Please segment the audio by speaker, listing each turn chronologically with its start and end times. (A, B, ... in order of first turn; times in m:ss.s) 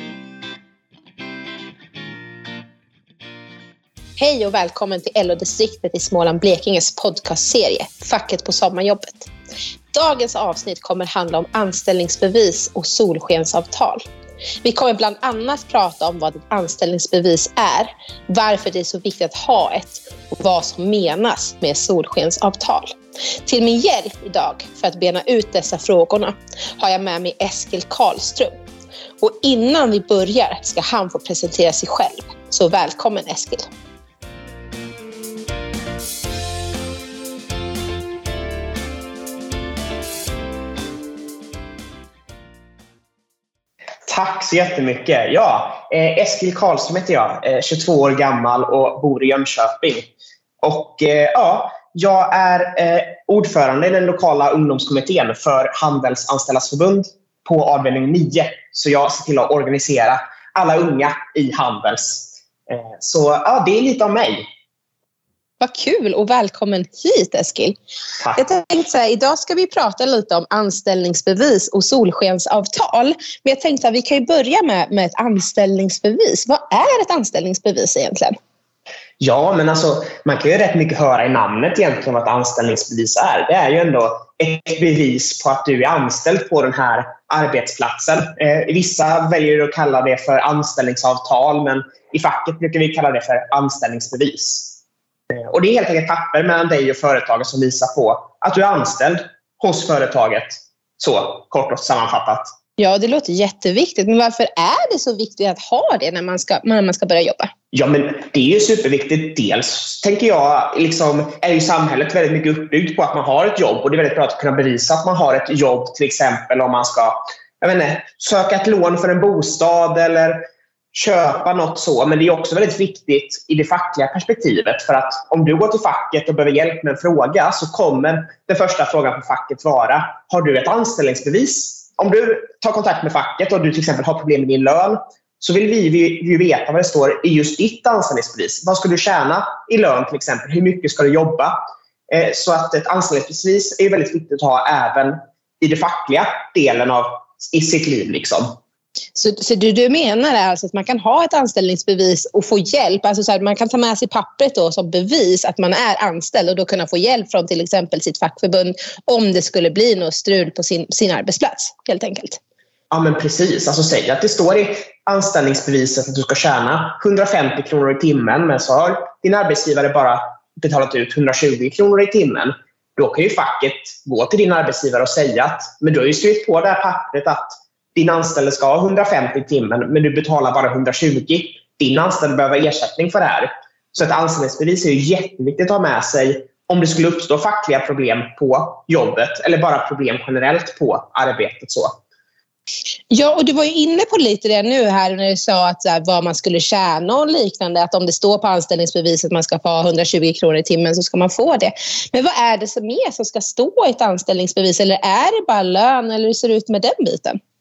0:04.2-0:09.3 A
0:09.9-0:14.0 A
0:14.6-0:28.5 A
0:29.2-0:33.6 A
0:44.1-0:50.1 B
0:50.6-1:04.5 B
1:05.6-1:07.8 A
1:08.3-1:18.4 A
1:19.2-1:34.8 B
1:35.3-1:42.5 B
1:42.8-1:47.5 A
1:47.7-2:21.6 B
2:22.1-2:28.6 B
2:29.2-2:42.4 A
2:42.9-3:11.9 B
3:13.1-3:27.4 A